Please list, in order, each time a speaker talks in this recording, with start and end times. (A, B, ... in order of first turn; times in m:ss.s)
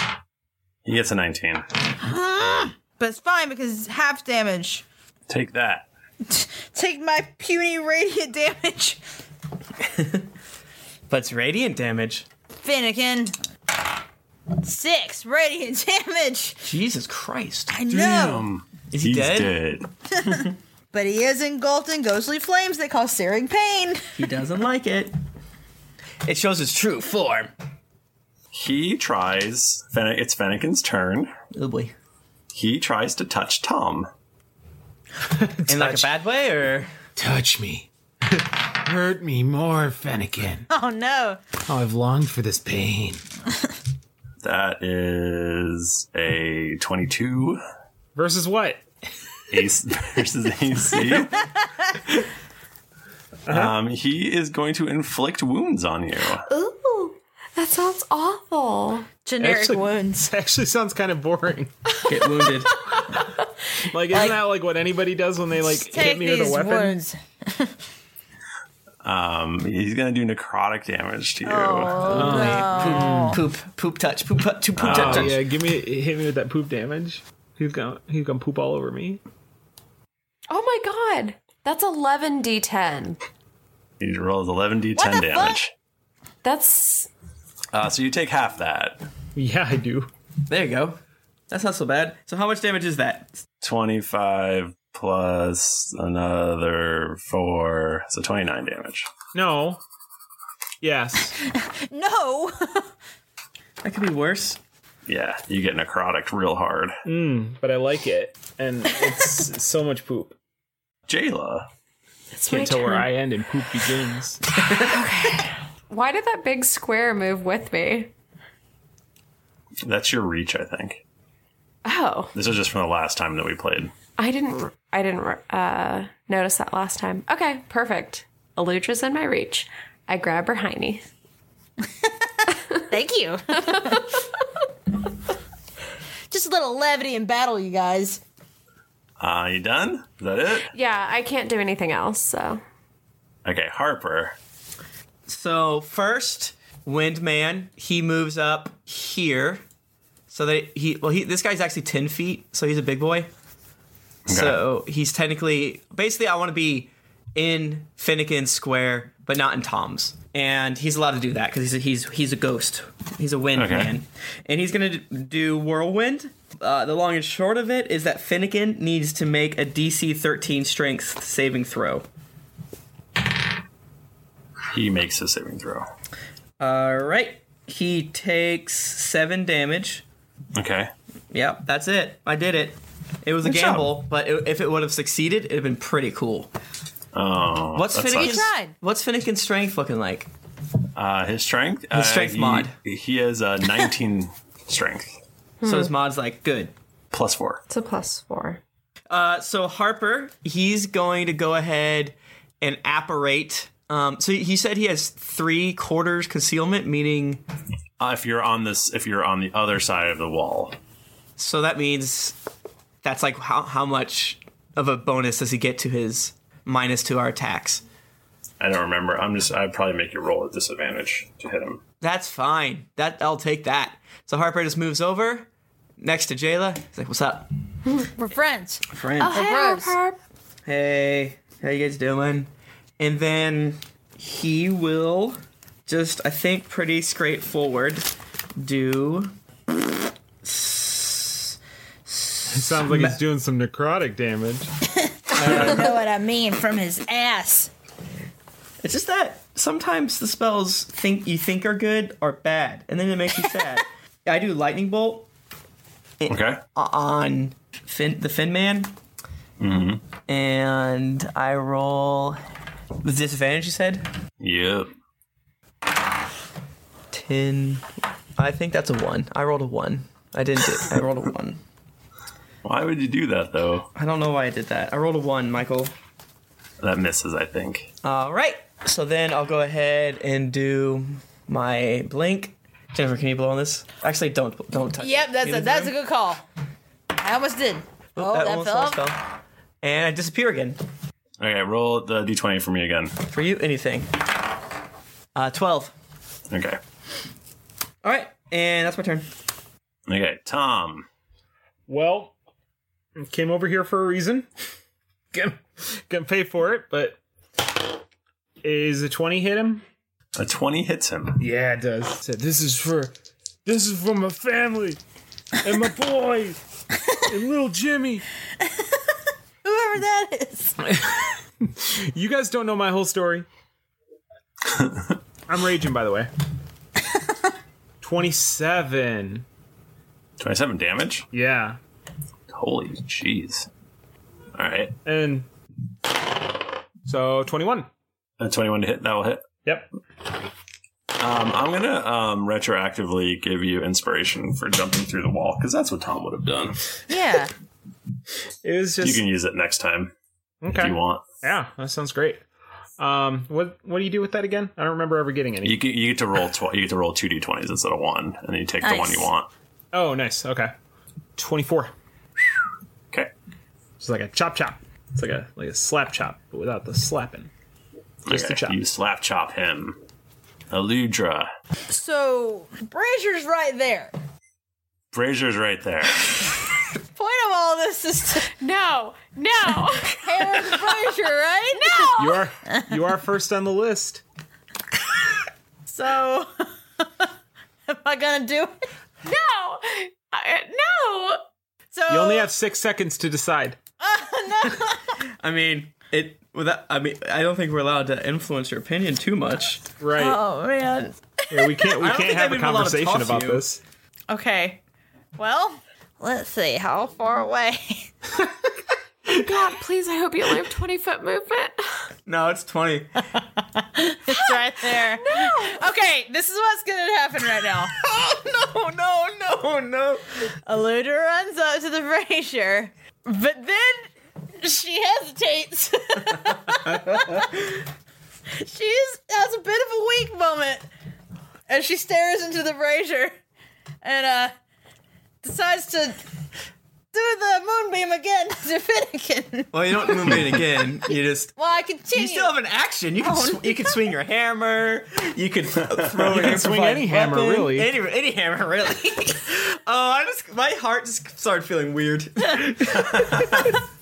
0:00.8-0:01.7 A
0:02.0-0:04.8 B
0:05.3-0:05.9 A
0:06.3-0:09.0 B
0:09.9-0:10.2 C
0:11.1-0:12.3 C
0:12.6-0:13.4 B
0:14.6-0:16.6 B
0:16.6-0:17.7 C
0:17.7-0:18.5 B
0:17.9-0:19.9 A
0:18.9-0:19.5 C
0:20.2-0:24.0 B
0:24.2-0:25.1 C
0:26.3-0:27.5 C
0:28.5-0:31.3 A
0:31.5-0:31.9 C
0:32.5-0:34.1 A
0:35.6-0:36.1 D
0:35.7-0:36.9 C
0:37.2-0:40.6 D
0:40.7-0:41.4 B
0:41.7-0:43.2 D
0:44.4-0:47.6 A
0:48.2-0:48.8 D
0:49.5-0:51.5 A
0:53.5-0:53.8 D
0:53.5-0:56.5 A
0:56.5-0:59.1 E
0:59.3-1:00.3 B
0:59.4-1:01.7 D
1:02.1-1:02.7 C
1:02.2-1:02.5 E
1:03.9-1:07.0 D
1:04.1-1:04.4 B
1:05.7-1:07.7 B
1:09.0-1:12.2 A
1:11.4-1:13.4 B
1:12.1-1:13.4 D
1:12.1-1:15.4 C
1:14.8-1:15.4 A
1:14.8-1:19.2 D
1:20.5-1:23.2 E
1:24.0-1:25.7 A
1:25.0-1:25.6 B
1:26.4-1:27.1 E
1:27.7-1:29.0 A
1:29.4-1:30.1 D
1:30.5-1:31.0 C
1:31.5-1:33.4 C
1:33.6-1:39.1 A
1:39.3-1:39.8 D
1:40.8-1:41.4 D
1:41.4-1:42.9 B
1:43.8-1:44.6 C
1:45.1-1:47.0 A
1:47.0-1:50.4 D
1:51.1-1:51.7 A
1:52.3-1:53.1 E
1:52.5-1:54.4 D
1:54.8-1:58.1 E
1:59.8-2:01.0 A
2:01.8-2:02.3 E
2:02.3-2:03.9 A
2:04.2-2:11.0 E
2:12.9-2:14.1 B
2:13.7-2:14.0 E
2:16.3-2:18.2 B
2:19.2-2:20.7 A
2:20.7-2:22.6 E
2:23.4-2:24.4 A
2:25.3-2:29.6 C
2:30.3-2:33.3 C
2:34.3-2:34.6 A
2:34.3-2:52.0 C
2:43.6-2:43.9 A
2:54.7-2:55.9 A
2:56.6-3:00.0 C
3:00.6-3:00.9 A
3:01.3-3:06.5 C
3:03.5-3:03.8 A
3:07.1-3:08.5 A
3:07.8-3:10.3 C
3:08.1-3:08.7 B
3:11.0-3:15.2 A
3:11.9-3:12.7 C
3:15.6-3:15.9 E
3:15.6-3:16.7 C
3:17.1-3:17.6 A
3:17.7-3:18.6 E
3:19.1-3:27.4 C
3:28.0-3:30.8 A
3:31.4-3:32.4 C
3:33.0-3:37.8 C
3:38.6-3:41.8 A
3:42.0-3:45.5 C
3:46.0-3:47.5 C
3:48.2-3:50.0 B
3:48.9-3:49.4 C
3:49.2-3:50.2 E
3:50.7-3:52.5 C
3:53.0-3:58.1 C
3:58.6-3:59.3 C
4:00.4-4:01.4 C
4:02.1-4:03.2 C
4:02.5-4:04.7 D
4:05.3-4:07.7 B
4:05.4-4:05.9 C
4:05.4-4:05.8 D
4:08.8-4:15.3 C
4:16.2-4:18.9 C
4:16.3-4:16.6 A
4:19.6-4:20.0 A
4:20.3-4:22.4 C
4:23.0-4:24.1 C
4:24.4-4:24.9 A
4:27.1-4:27.8 C
4:28.4-4:31.6 C
4:32.6-4:33.9 A
4:34.0-4:35.9 C
4:36.8-4:37.9 A
4:38.0-4:45.9 C
4:45.0-4:46.4 B
4:47.2-4:49.0 B
4:48.2-4:49.3 C
4:49.8-4:50.8 C
4:51.4-4:53.2 A
4:53.2-4:54.1 C
4:55.4-4:55.9 C
4:56.5-4:56.8 A
4:58.0-4:59.3 C
5:00.1-5:01.1 A
5:01.9-5:02.3 D
5:03.2-5:04.5 D
5:05.3-5:07.2 D
5:08.6-5:09.8 D
5:10.4-5:11.4 A
5:11.4-5:13.1 D
5:13.7-5:15.0 D
5:15.6-5:16.6 D
5:17.3-5:18.2 D
5:19.6-5:20.8 B
5:20.9-5:23.5 D
5:24.7-5:25.1 A
5:25.5-5:26.3 D
5:28.0-5:29.4 D
5:30.4-5:31.3 A
5:31.3-5:31.8 D
5:32.5-5:33.7 A
5:34.6-5:35.0 A
5:35.0-5:35.5 D
5:37.0-5:37.9 D
5:38.4-5:39.5 A
5:41.2-5:46.8 A
5:47.1-5:47.5 B
5:48.6-5:49.3 D
5:49.0-5:50.1 A
5:50.6-5:52.4 D
5:50.7-5:51.2 A
5:53.0-5:55.9 D
5:55.6-5:59.5 A
5:58.8-5:59.3 B
5:59.9-6:00.7 D
6:01.4-6:01.9 D
6:04.0-6:07.5 D
6:08.3-6:08.8 D
6:08.3-6:10.0 A
6:10.7-6:11.5 A
6:11.9-6:14.1 B
6:15.1-6:16.3 A
6:17.2-6:18.5 B
6:18.6-6:20.8 E
6:20.1-6:22.2 B
6:21.8-6:22.5 E
6:22.2-6:24.2 D
6:25.9-6:27.3 B
6:27.9-6:28.9 B
6:29.2-6:31.4 E
6:31.9-6:32.5 B
6:32.1-6:33.8 D
6:34.0-6:35.1 B
6:35.4-6:39.8 C
6:40.0-6:40.4 D
6:40.2-6:41.9 B
6:41.5-6:43.8 D
6:42.0-6:43.6 C
6:44.3-6:44.8 B
6:45.4-6:48.1 B
6:49.3-6:52.1 E
6:52.3-6:53.1 C
6:53.8-6:57.9 B
6:55.2-6:55.8 E
6:57.9-7:00.2 C
7:00.6-7:07.7 B
7:08.5-7:10.8 B
7:11.7-7:13.4 B
7:14.0-7:14.5 B
7:15.4-7:16.2 B
7:17.1-7:19.7 B
7:19.7-7:21.5 C
7:21.6-7:22.5 B
7:22.1-7:33.6 C
7:23.2-7:24.0 B
7:26.3-7:27.9 D